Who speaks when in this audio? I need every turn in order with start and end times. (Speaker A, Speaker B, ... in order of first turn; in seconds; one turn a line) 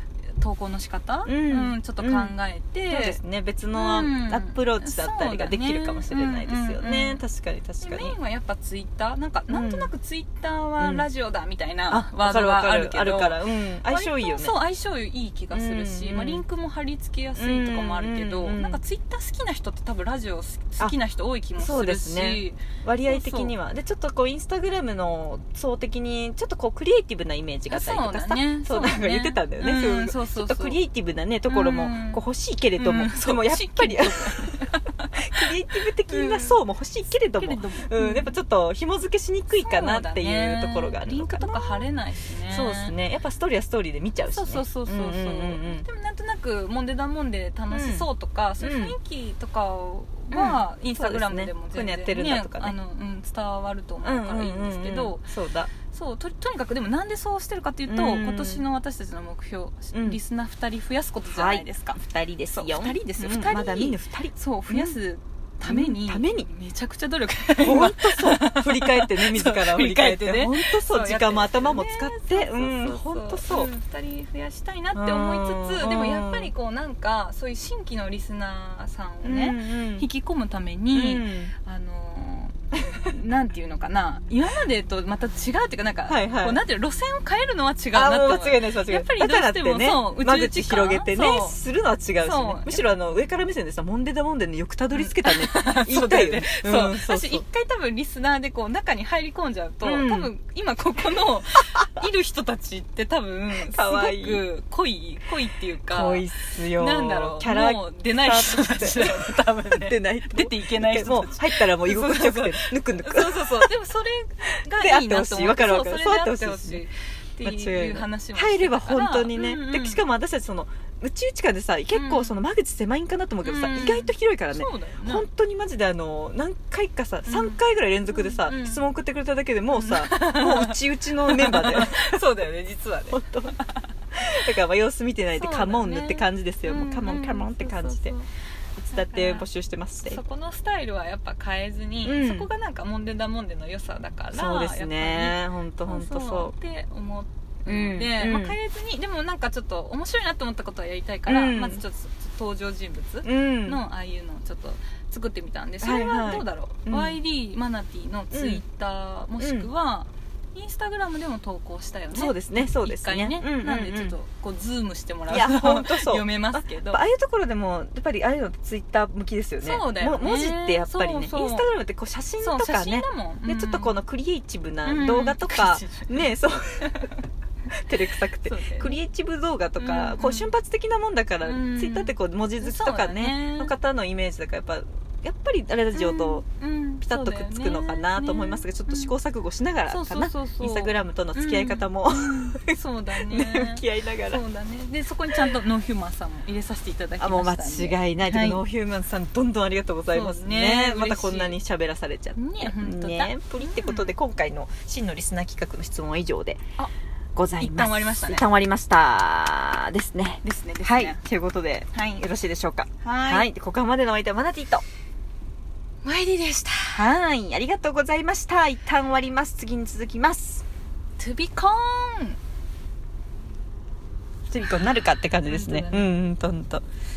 Speaker A: 0.4-3.2
Speaker B: 1.3-2.3
Speaker B: 2.9-8.2
Speaker A: 3.7-7.2
Speaker A: 7.8-23.6
Speaker B: 9.5-9.9
Speaker B: 10.8-11.1
Speaker B: 11.9-14.6
Speaker B: 15.5-16.4
Speaker B: 17.4-18.8
Speaker B: 21.6-34.6
Speaker A: 27.7-30.8
Speaker A: 31.5-32.2
Speaker A: 32.8-35.5
Speaker B: 35.2-41.9
Speaker A: 36.1-36.6
Speaker A: 37.3-38.4
Speaker A: 39.6-42.9
Speaker B: 42.5-45.9
Speaker A: 44.3-55.2
Speaker B: 47.7-48.1
Speaker B: 48.6-49.0
Speaker B: 50.3-52.8
Speaker B: 54.0-55.7
Speaker A: 55.9-91.6
Speaker B: 57.9-58.6
Speaker B: 59.9-60.2
Speaker B: 61.3-65.0
Speaker B: 65.7-66.5
Speaker B: 67.6-73.7
Speaker B: 74.9-76.5
Speaker B: 79.2-80.1
Speaker B: 80.9-81.5
Speaker B: 86.1-86.6
Speaker B: 87.9-97.4
Speaker A: 92.2-92.9
Speaker A: 94.9-120.0
Speaker B: 99.8-100.3
Speaker B: 103.7-104.5
Speaker B: 105.9-113.7
Speaker B: 114.7-116.8
Speaker B: 117.4-132.2
Speaker A: 121.9-122.4
Speaker A: 123.4-125.3
Speaker A: 127.3-128.8
Speaker A: 129.7-133.9
Speaker B: 133.1-133.6
Speaker B: 134.1-138.2
Speaker A: 135.3-138.3
Speaker B: 138.8-140.2
Speaker A: 138.9-139.5
Speaker A: 140.0-167.0
Speaker B: 142.0-142.5
Speaker B: 144.3-146.5
Speaker B: 147.7-148.6
Speaker B: 151.3-151.8
Speaker B: 153.2-153.8
Speaker B: 155.8-157.2
Speaker B: 158.3-158.6
Speaker B: 159.4-159.7
Speaker B: 162.1-164.2
Speaker B: 165.3-176.9
Speaker A: 169.6-171.7
Speaker A: 172.4-173.9
Speaker A: 174.8-177.2
Speaker B: 177.7-186.4
Speaker A: 178.4-179.0
Speaker A: 179.8-180.5
Speaker A: 181.4-183.8
Speaker A: 185.9-189.1
Speaker B: 187.0-194.4
Speaker A: 189.9-198.6
Speaker B: 197.2-206.6
Speaker A: 200.1-201.6
Speaker A: 202.4-204.1
Speaker B: 207.4-214.8
Speaker A: 207.6-208.5
Speaker A: 210.4-211.2
Speaker A: 211.9-212.2
Speaker A: 213.0-213.5
Speaker A: 216.0-217.1
Speaker B: 216.9-220.6
Speaker A: 221.2-222.4
Speaker B: 224.5-226.8
Speaker A: 225.4-226.2